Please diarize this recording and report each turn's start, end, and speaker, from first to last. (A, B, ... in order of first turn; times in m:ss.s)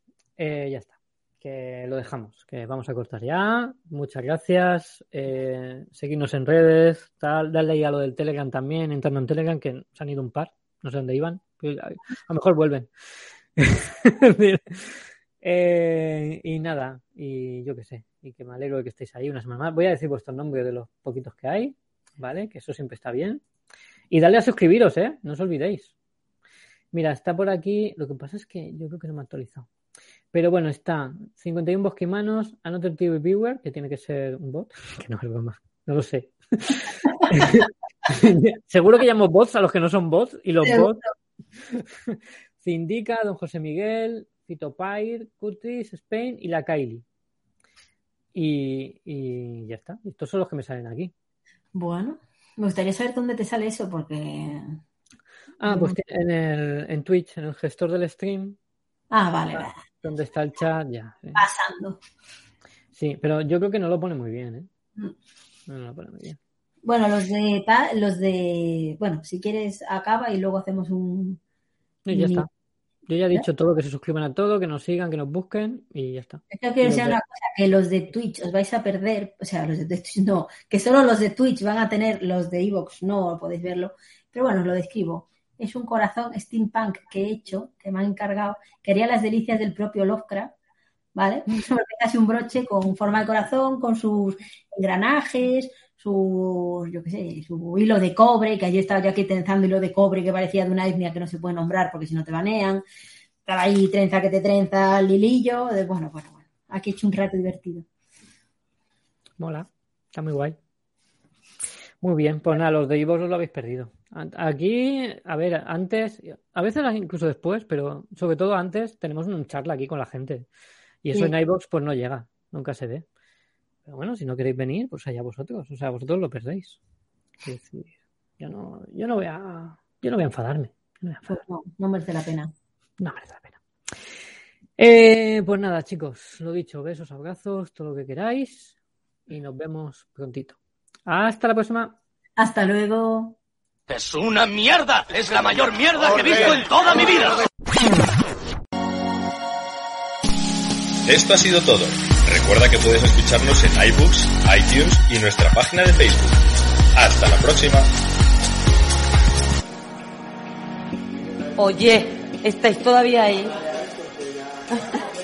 0:00.4-0:12.9 A
0:13.6-0:23.4 A
0:24.1-0:25.9 A
0:26.9-0:29.7 A
0:30.3-0:41.0 A
0:40.6-0:41.1 B
0:41.7-0:47.0 A
0:48.3-0:51.1 A
0:51.7-0:54.8 B
0:55.6-0:58.6 A
0:55.6-0:56.0 B
0:59.1-0:59.8 B
0:59.5-1:01.4 A
1:01.3-1:02.0 B
1:02.9-1:04.7 A
1:05.7-1:06.4 A
1:06.8-1:11.4 B
1:12.0-1:12.5 A
1:12.1-1:12.5 B
1:13.1-1:17.2 A
1:16.5-1:30.5 B
1:31.2-1:42.8 B
1:43.4-1:47.8 B
1:49.4-1:50.6 A
1:52.0-2:00.5 A
2:01.0-2:03.0 A
2:03.8-2:06.8 A
2:07.4-2:11.4 A
2:11.3-2:12.5 B
2:13.0-2:13.9 A
2:14.8-2:18.8 A
2:19.3-2:22.0 A
2:22.4-2:23.4 B
2:23.9-2:27.4 C
2:31.0-2:37.9 D
2:41.6-2:43.6 E